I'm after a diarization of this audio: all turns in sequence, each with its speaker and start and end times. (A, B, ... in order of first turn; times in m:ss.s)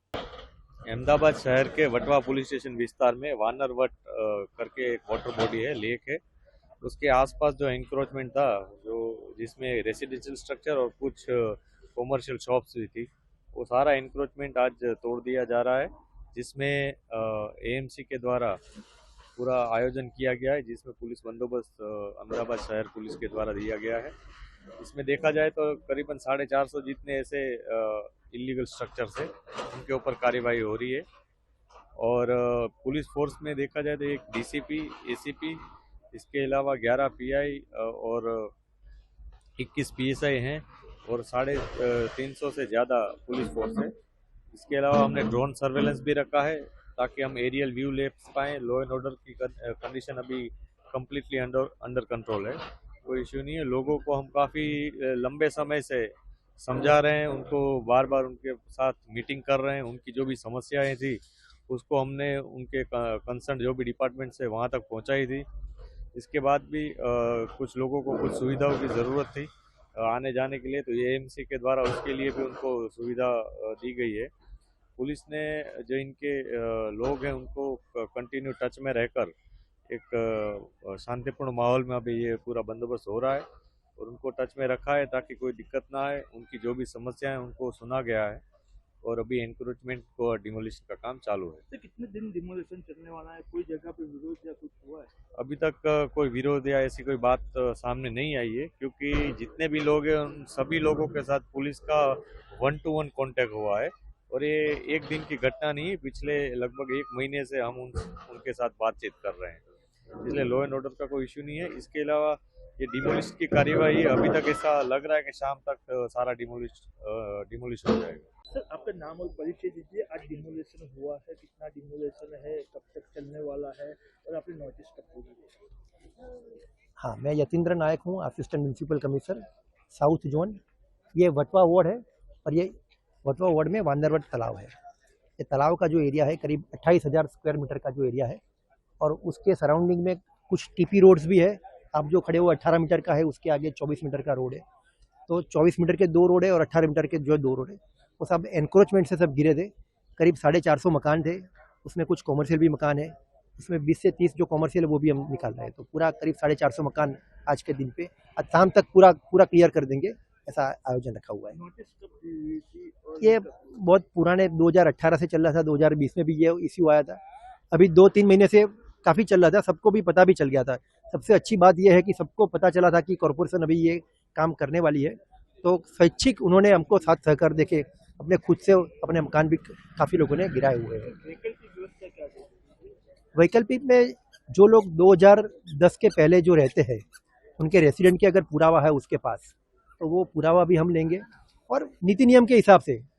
0:00.9-0:06.2 A
0:06.8-0:18.6 A
0:19.4-0:24.1 A
0:24.8-0:31.0 A
0:32.0-0:35.6 A
0:36.1-0:38.5 A
0:39.6-0:43.9 A
0:44.5-1:05.4 A
1:06.1-1:14.3 A
1:15.0-1:19.3 A
1:19.9-1:23.4 A
1:24.0-1:28.4 A
1:29.0-1:31.6 A
1:31.7-1:35.1 B
1:35.4-1:49.6 A
1:50.2-1:58.3 A
1:58.5-2:05.6 B
2:07.0-2:10.6 C
2:11.1-2:14.7 C
2:15.4-2:18.4 C
2:19.0-2:24.6 C
2:25.3-2:41.6 C
2:41.5-2:43.7 B
2:43.2-2:47.2 C
2:47.7-3:01.1 C
3:01.1-3:02.5 B
3:03.3-3:07.0 C
3:07.6-3:13.0 C